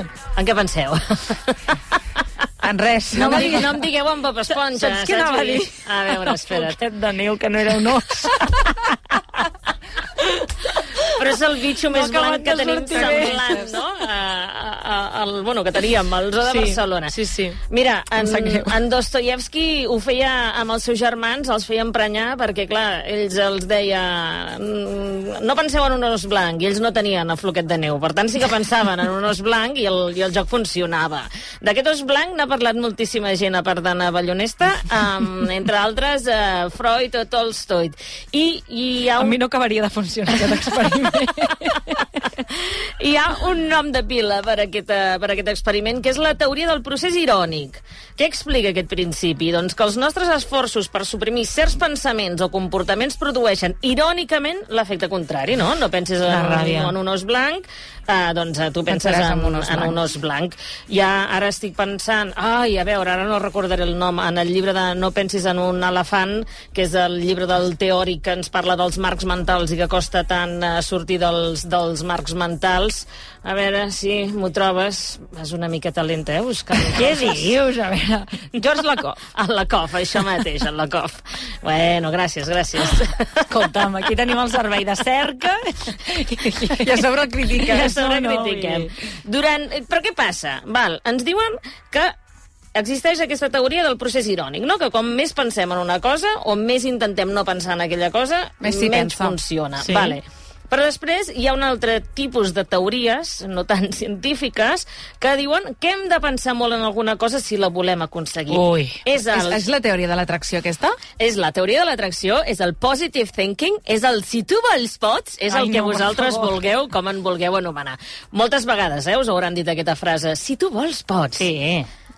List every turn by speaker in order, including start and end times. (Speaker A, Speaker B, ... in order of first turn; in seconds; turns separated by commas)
Speaker A: 0.3-1.7, Speaker B: 2.6-3.8, Speaker A: 3.1-6.8, Speaker C: 3.3-3.7, Speaker C: 4.5-9.4, Speaker C: 10.2-11.1, Speaker A: 11.2-17.1, Speaker C: 11.9-13.8, Speaker B: 13.0-13.3, Speaker C: 16.4-17.6, Speaker A: 17.7-39.4, Speaker C: 18.2-18.8, Speaker C: 39.2-42.2, Speaker A: 40.4-41.0, Speaker A: 42.3-77.5, Speaker C: 56.2-56.9, Speaker B: 58.9-60.0, Speaker C: 76.8-79.2, Speaker A: 79.3-83.7, Speaker C: 83.5-88.9, Speaker B: 86.7-87.9, Speaker A: 87.7-92.2, Speaker A: 92.7-109.7, Speaker B: 98.6-99.4, Speaker C: 99.8-100.2, Speaker C: 108.5-109.0, Speaker B: 109.3-111.0, Speaker A: 111.2-121.5, Speaker C: 115.5-116.5, Speaker C: 121.4-121.9